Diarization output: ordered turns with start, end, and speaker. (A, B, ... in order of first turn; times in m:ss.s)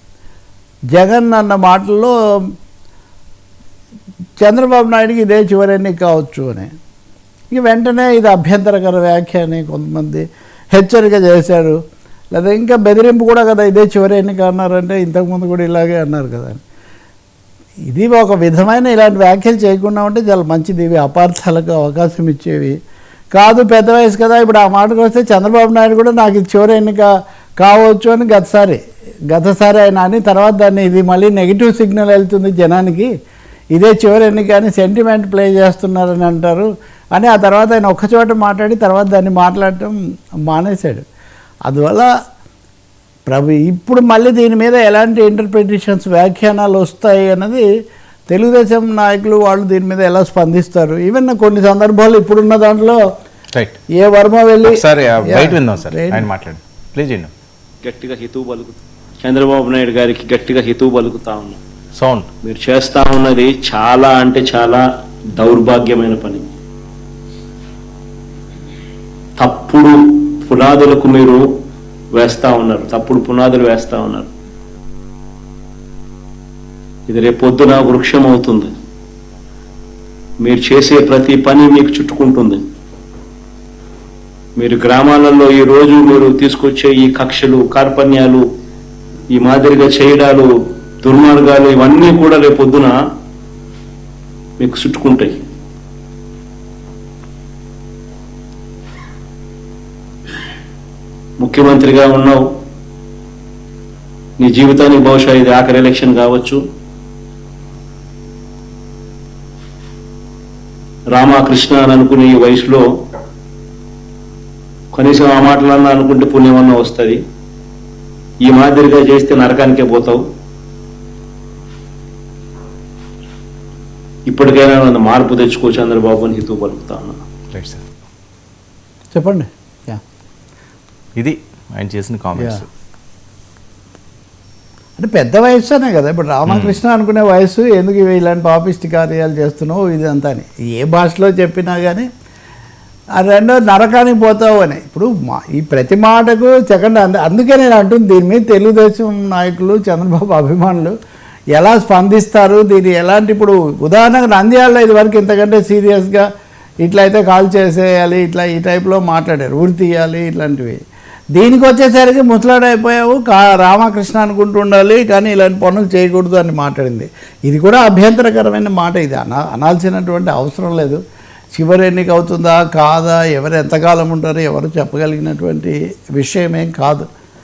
0:00.9-0:02.5 A
0:04.4-0:06.7 A
0:07.5-0:11.8 A
0:12.3-0:16.6 A
0:17.9-0:22.8 A
0:23.3-0:28.8 A
0:29.3-0:33.1 A
0:33.7-0:40.0 A
0:40.5-0:41.0 A
0:41.7-0:42.1 A
0:43.3-0:47.6 A
0:48.3-0:53.0 A
0:53.5-0:53.8 B
0:54.0-0:56.3 A
0:54.6-0:57.3 B
0:57.8-1:01.6 C
1:02.0-1:02.3 B
1:02.4-1:04.8 C
1:05.4-1:06.4 C
1:09.4-1:11.4 C
1:12.1-1:14.3 C
1:17.1-1:18.7 C
1:20.4-1:22.6 C
1:24.6-1:28.4 C
1:29.3-1:30.5 C
1:31.0-1:32.9 C
1:34.6-1:35.4 C
1:41.4-1:42.6 C
1:44.4-1:46.6 C
1:51.1-1:52.8 C
1:54.9-1:57.2 C
1:58.4-2:00.2 C
2:04.3-2:07.2 C
2:07.5-2:07.9 B
2:09.1-2:10.0 A
2:11.2-2:12.7 B
2:12.4-2:12.6 A
2:15.0-2:22.1 A
2:16.5-2:16.8 B
2:23.2-2:31.0 A
2:31.5-2:36.3 A
2:36.8-2:40.8 A
2:41.4-2:51.0 A
2:51.6-2:57.1 A